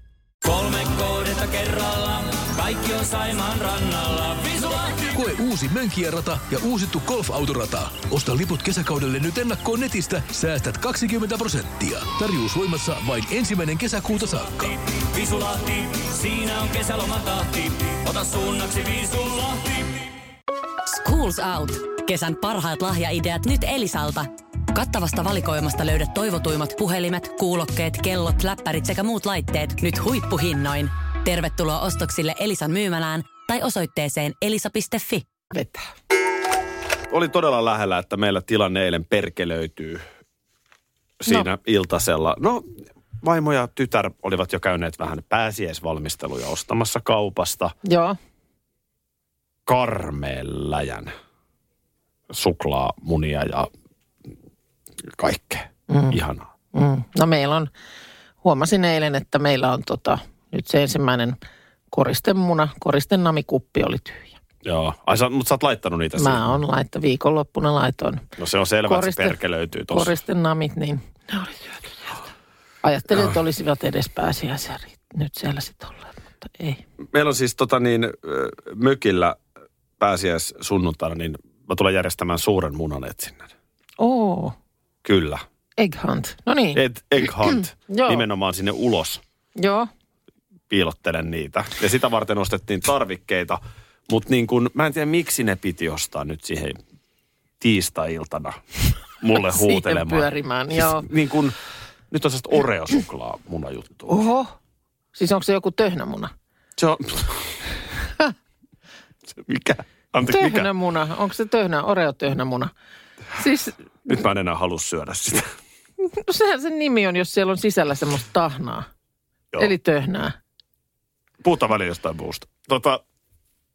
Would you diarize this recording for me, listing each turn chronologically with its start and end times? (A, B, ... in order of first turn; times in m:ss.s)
0:00.4-0:05.1 A
0:05.1-0:14.7 B
0:14.7-0:20.0 A
0:20.9-0:35.2 C
0:35.5-0:35.9 D
0:37.1-0:40.0 E
0:41.2-0:42.6 E
0:43.2-0:47.7 E
0:47.8-0:48.2 D
0:49.6-0:51.1 E
0:52.3-0:53.7 E
0:55.1-0:56.5 E
0:55.9-0:56.2 D
0:56.7-0:57.7 D
0:58.4-1:01.4 D
1:01.9-1:04.4 D
1:04.6-1:06.5 E
1:06.2-1:08.2 D
1:08.4-1:10.1 E
1:08.9-1:09.4 D
1:09.9-1:12.2 D
1:12.8-1:16.8 D
1:17.1-1:19.4 E
1:20.0-1:23.5 E
1:24.0-1:24.5 D
1:25.0-1:25.4 E
1:25.8-1:26.8 D
1:26.8-1:29.2 E
1:27.5-1:28.2 D
1:29.6-1:29.9 D
1:30.7-1:36.8 E
1:37.6-1:38.6 E
1:39.2-1:41.6 E
1:39.4-1:41.1 D
1:42.1-1:44.2 E
1:44.1-1:44.5 D
1:45.1-1:46.3 D
1:46.8-1:47.5 E
1:49.3-1:50.7 E
1:50.3-1:52.7 D
1:53.4-1:53.8 D
1:54.1-1:55.5 E
1:56.0-1:58.9 D
1:59.6-2:00.4 D
2:01.4-2:03.0 E